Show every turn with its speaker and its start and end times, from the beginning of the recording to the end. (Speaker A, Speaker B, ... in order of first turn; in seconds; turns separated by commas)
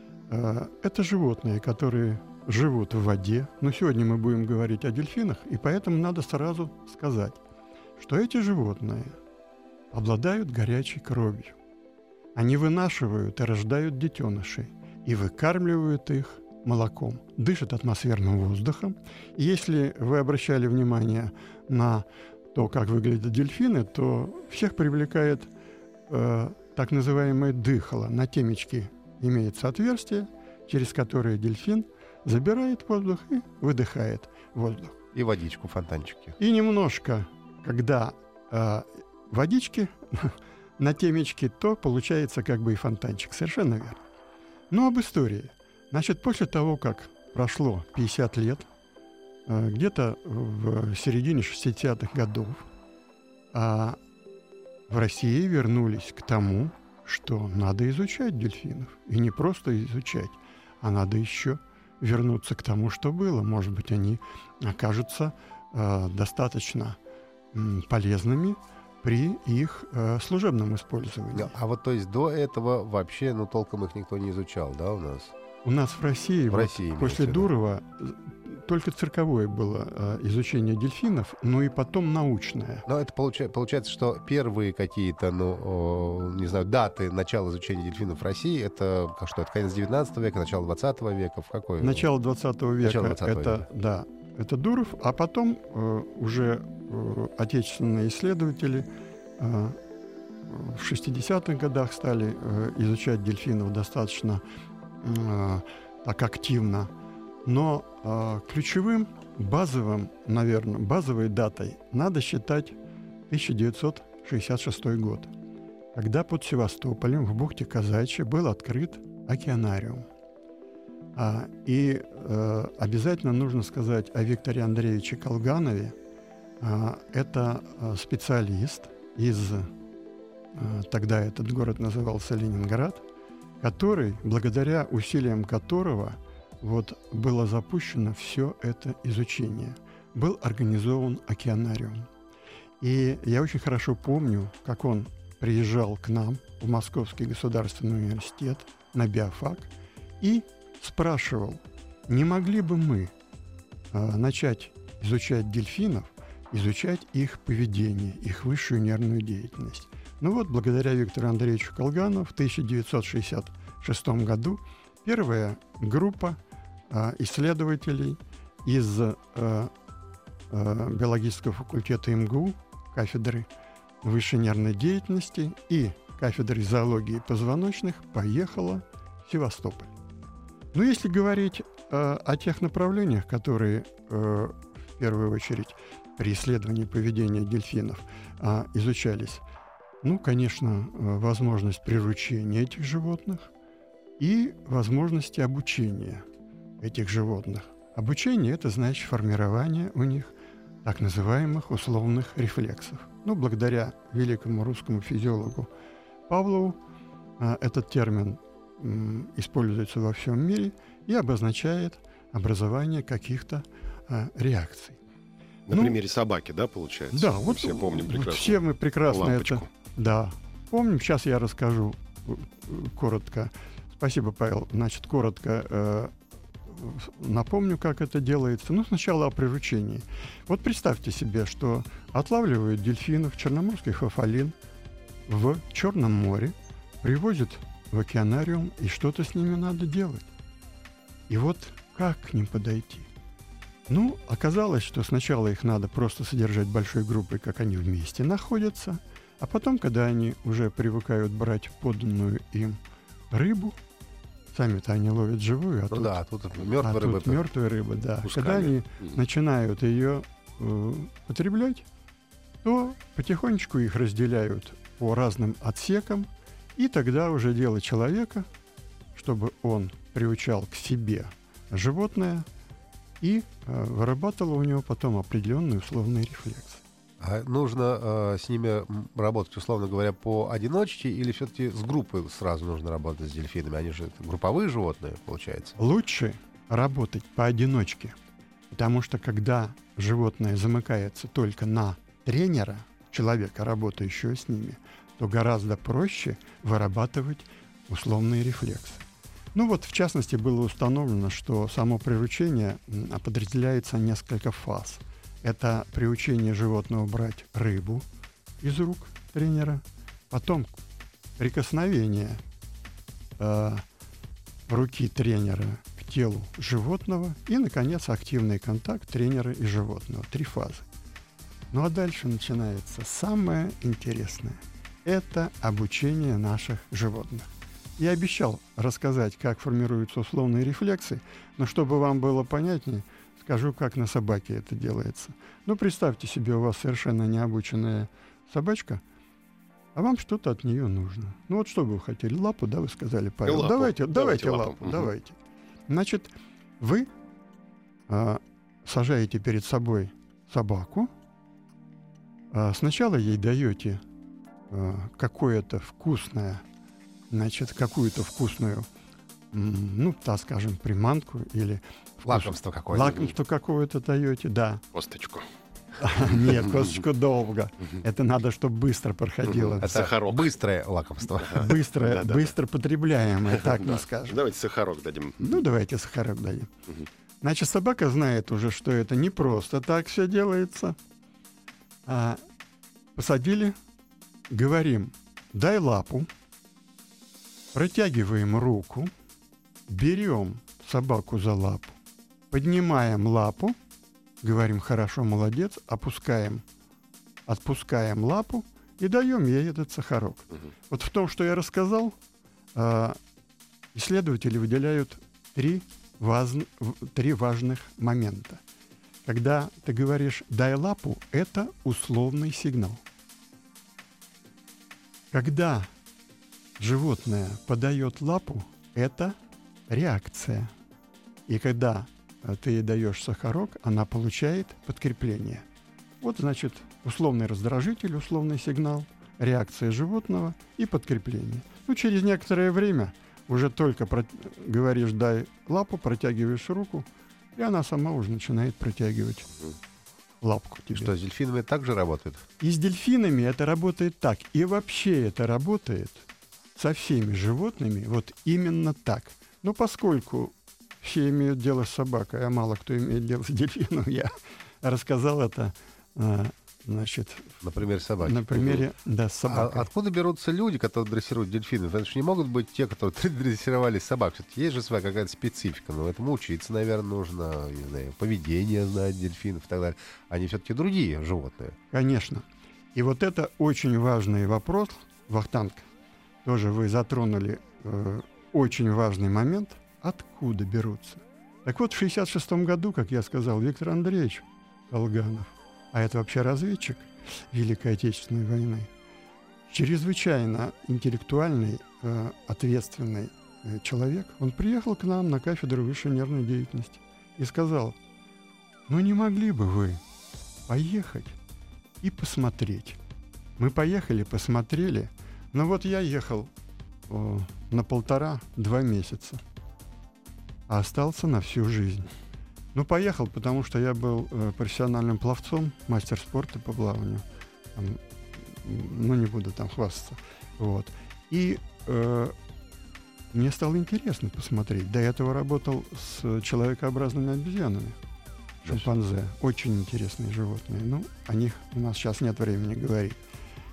Speaker A: 0.3-7.4, Speaker A: 8.0-9.2, Speaker A: 9.9-11.6, Speaker A: 12.3-25.5, Speaker A: 26.1-35.0, Speaker B: 35.1-36.4, Speaker A: 36.4-44.0, Speaker A: 44.7-48.7, Speaker A: 49.5-52.6, Speaker A: 53.5-54.0, Speaker A: 54.9-67.0, Speaker A: 67.5-71.5, Speaker B: 71.3-75.3, Speaker A: 75.6-82.9, Speaker B: 76.5-77.5, Speaker B: 82.9-92.0, Speaker A: 91.8-99.8, Speaker B: 92.8-93.7, Speaker A: 100.5-104.4, Speaker A: 105.0-106.9, Speaker A: 107.5-112.8, Speaker A: 113.3-115.3, Speaker A: 115.9-120.1, Speaker A: 121.2-126.0, Speaker A: 126.6-129.7, Speaker A: 130.6-133.0, Speaker A: 133.6-142.1, Speaker A: 142.8-153.1, Speaker A: 153.9-166.4, Speaker A: 166.9-169.7, Speaker A: 170.5-173.5, Speaker A: 174.0-179.9, Speaker A: 180.7-189.4, Speaker A: 190.0-193.5, Speaker A: 194.2-196.2, Speaker A: 196.8-200.3, Speaker A: 200.8-205.7, Speaker A: 206.3-206.8, Speaker A: 207.4-215.0, Speaker C: 215.7-219.7, Speaker A: 215.7-216.0, Speaker A: 217.1-226.1, Speaker A: 226.7-234.5, Speaker A: 235.3-240.3, Speaker A: 241.3-243.1, Speaker A: 243.9-252.8, Speaker A: 253.3-253.8, Speaker A: 254.5-256.2, Speaker B: 255.9-257.5, Speaker A: 256.8-261.9, Speaker C: 258.2-259.2, Speaker A: 262.6-268.5, Speaker A: 269.1-272.5, Speaker A: 273.2-276.8, Speaker B: 277.2-285.8, Speaker A: 285.8-288.2, Speaker A: 288.7-308.1, Speaker A: 308.6-310.8, Speaker A: 311.4-312.4, Speaker A: 313.4-313.9, Speaker A: 314.7-320.9, Speaker A: 321.7-339.0, Speaker A: 339.9-345.4, Speaker C: 343.5-345.1, Speaker A: 345.9-347.1, Speaker A: 348.1-351.1, Speaker A: 352.5-354.0, Speaker A: 354.7-356.6, Speaker A: 357.3-358.9, Speaker A: 359.5-364.8, Speaker B: 362.2-363.3, Speaker C: 364.9-365.5, Speaker A: 366.0-370.0, Speaker C: 369.5-370.5, Speaker B: 369.8-371.7, Speaker C: 371.4-372.5, Speaker A: 371.5-374.4, Speaker C: 373.6-375.6, Speaker A: 375.4-376.7, Speaker A: 377.4-381.0, Speaker A: 382.1-382.4, Speaker A: 383.2-383.8, Speaker A: 384.5-386.3, Speaker A: 387.7-389.1, Speaker A: 389.9-392.0, Speaker A: 392.5-393.8, Speaker A: 394.4-396.6, Speaker A: 397.5-402.2, Speaker A: 402.8-403.2, Speaker A: 403.9-408.6, Speaker A: 409.2-413.0, Speaker A: 415.3-415.9, Speaker A: 416.8-419.4, Speaker A: 419.9-420.7, Speaker A: 421.5-425.6, Speaker A: 426.2-439.5, Speaker A: 440.4-441.1, Speaker B: 440.9-442.4, Speaker A: 442.6-459.9, Speaker B: 457.6-458.9, Speaker B: 459.5-471.8, Speaker A: 471.9-475.9, Speaker A: 476.4-488.9, Speaker A: 489.7-498.0, Speaker A: 498.9-500.0, Speaker A: 500.7-501.4, Speaker A: 502.0-503.0, Speaker A: 503.6-506.5, Speaker A: 507.1-509.4, Speaker A: 510.7-512.1, Speaker A: 512.7-522.4, Speaker A: 523.3-528.0, Speaker A: 528.6-533.2